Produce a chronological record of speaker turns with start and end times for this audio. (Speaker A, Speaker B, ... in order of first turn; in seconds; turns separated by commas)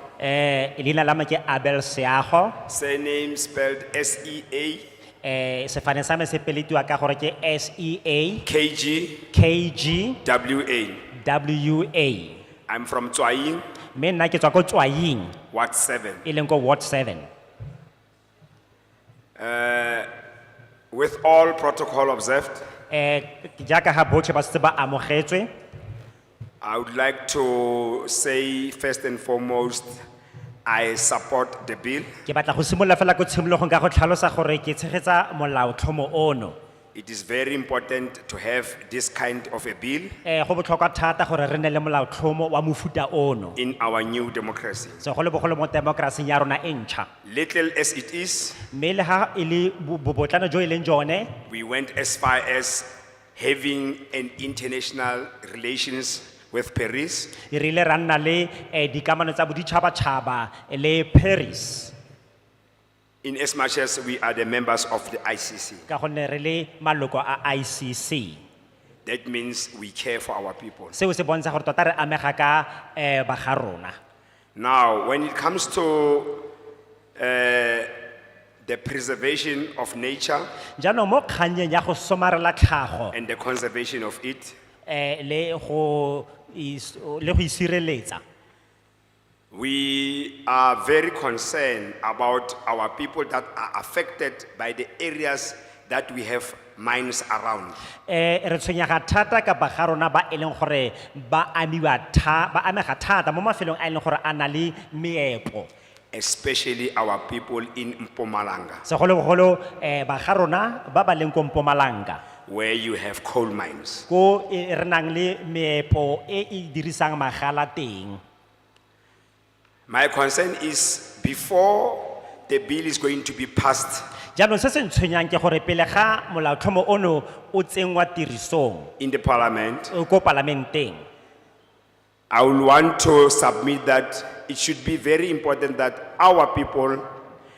Speaker A: 0.2-2.6, Speaker B: 2.7-4.9, Speaker A: 5.2-8.4, Speaker B: 8.4-9.3, Speaker A: 9.3-10.2, Speaker B: 10.2-11.1, Speaker A: 11.1-12.4, Speaker B: 12.7-13.7, Speaker A: 13.9-15.4, Speaker B: 15.5-16.2, Speaker A: 16.2-17.3, Speaker B: 19.4-20.1, Speaker B: 20.9-22.7, Speaker A: 22.9-25.5, Speaker B: 26.6-30.0, Speaker B: 30.6-32.1, Speaker A: 32.2-36.6, Speaker B: 36.9-40.1, Speaker A: 40.2-43.6, Speaker B: 43.6-45.0, Speaker A: 45.0-47.1, Speaker B: 47.2-48.6, Speaker A: 48.7-51.3, Speaker B: 51.5-57.4, Speaker A: 57.5-61.9, Speaker B: 63.2-65.9, Speaker A: 65.9-68.4, Speaker B: 69.0-71.0, Speaker A: 70.9-74.0, Speaker B: 74.5-76.5, Speaker B: 77.2-78.0, Speaker B: 78.6-80.5, Speaker A: 80.8-83.1, Speaker B: 83.1-84.5, Speaker A: 84.8-88.2, Speaker B: 89.5-97.8, Speaker A: 98.1-105.7, Speaker B: 106.1-108.8, Speaker A: 108.8-112.2, Speaker B: 112.5-114.1, Speaker A: 114.1-118.2, Speaker B: 119.9-124.0, Speaker A: 124.3-128.9, Speaker B: 129.0-129.9, Speaker A: 129.9-131.0, Speaker B: 132.3-137.1